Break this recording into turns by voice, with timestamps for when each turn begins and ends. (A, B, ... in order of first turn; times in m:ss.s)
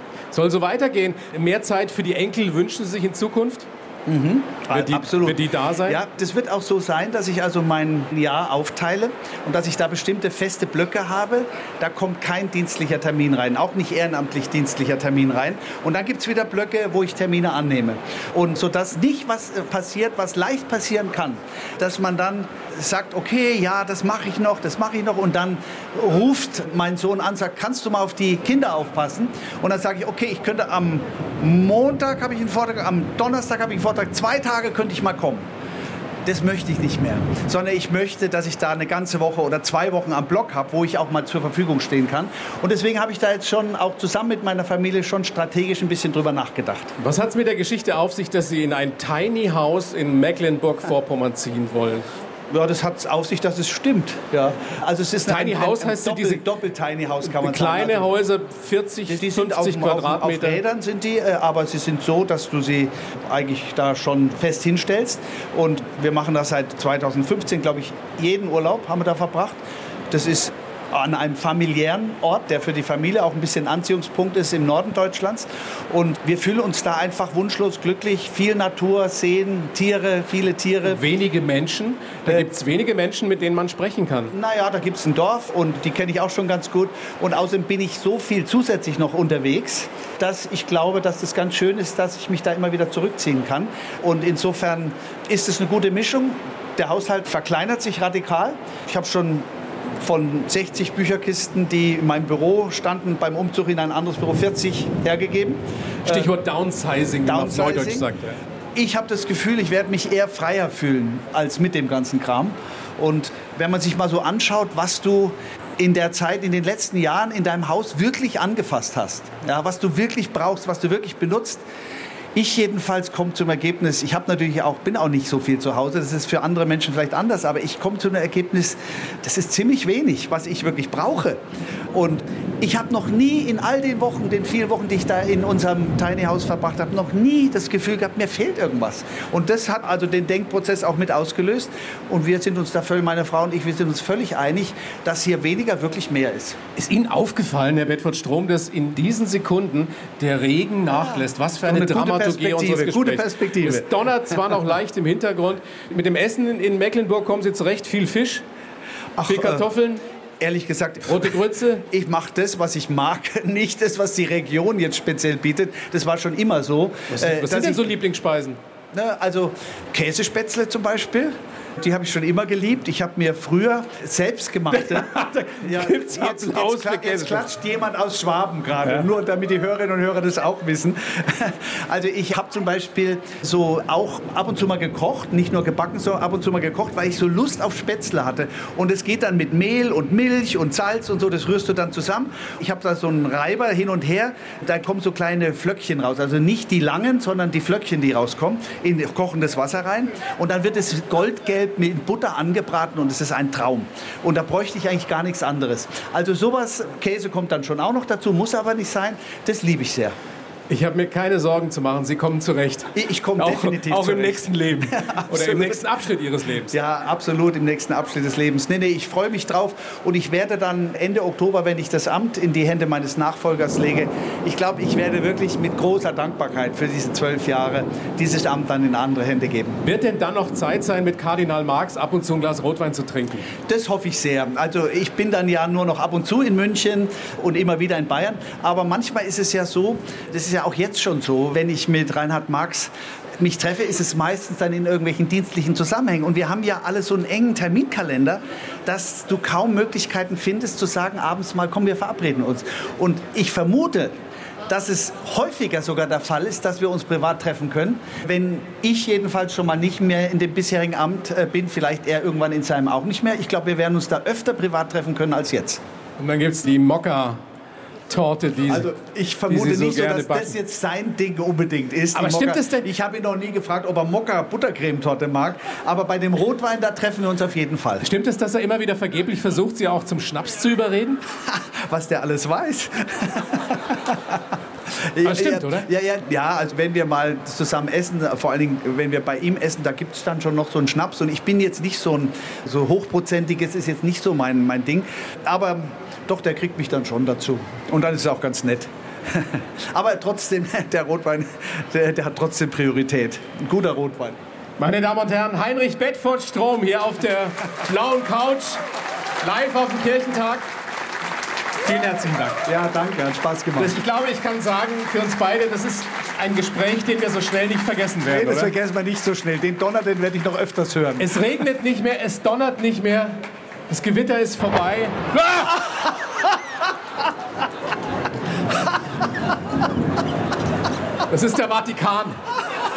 0:00.3-0:03.7 A
0:04.1-0:35.5 B
0:04.7-0:06.0 A
0:36.2-0:46.9 B
0:47.0-0:52.1 A
0:52.5-0:58.1 B
0:55.2-0:56.4 A
0:57.2-1:00.6 A
0:59.1-1:09.6 B
1:10.1-1:21.0 B
1:20.8-1:24.3 A
1:24.3-1:39.5 B
1:40.0-1:46.3 B
1:46.0-1:48.4 A
1:47.2-1:48.1 B
1:48.7-2:01.6 B
2:02.3-2:11.4 B
2:11.9-2:26.6 B
2:26.8-2:38.4 A
2:31.0-2:34.0 B
2:39.2-2:39.7 B
2:39.2-2:40.0 A
2:40.4-2:47.9 B
2:41.0-2:41.8 A
2:47.1-2:48.6 A
2:48.9-3:30.2 B
2:54.7-2:57.5 A
3:30.7-3:36.8 A
3:32.9-3:35.8 B
3:36.7-3:49.8 B
3:49.8-3:53.5 A
3:53.6-4:14.1 B
4:14.7-4:25.8 B
4:26.2-4:27.4 A
4:28.1-4:28.9 A
4:28.7-4:38.0 B
4:29.5-4:30.6 A
4:32.1-4:32.9 A
4:38.0-4:41.2 A
4:41.4-5:04.4 B
4:45.2-4:45.9 A
5:04.8-5:08.8 A
5:09.4-5:10.6 A
5:11.8-5:12.6 A
5:12.6-5:13.9 B
5:13.8-5:18.7 A
5:18.3-5:21.3 B
5:21.2-5:25.7 A
5:31.3-5:32.4 A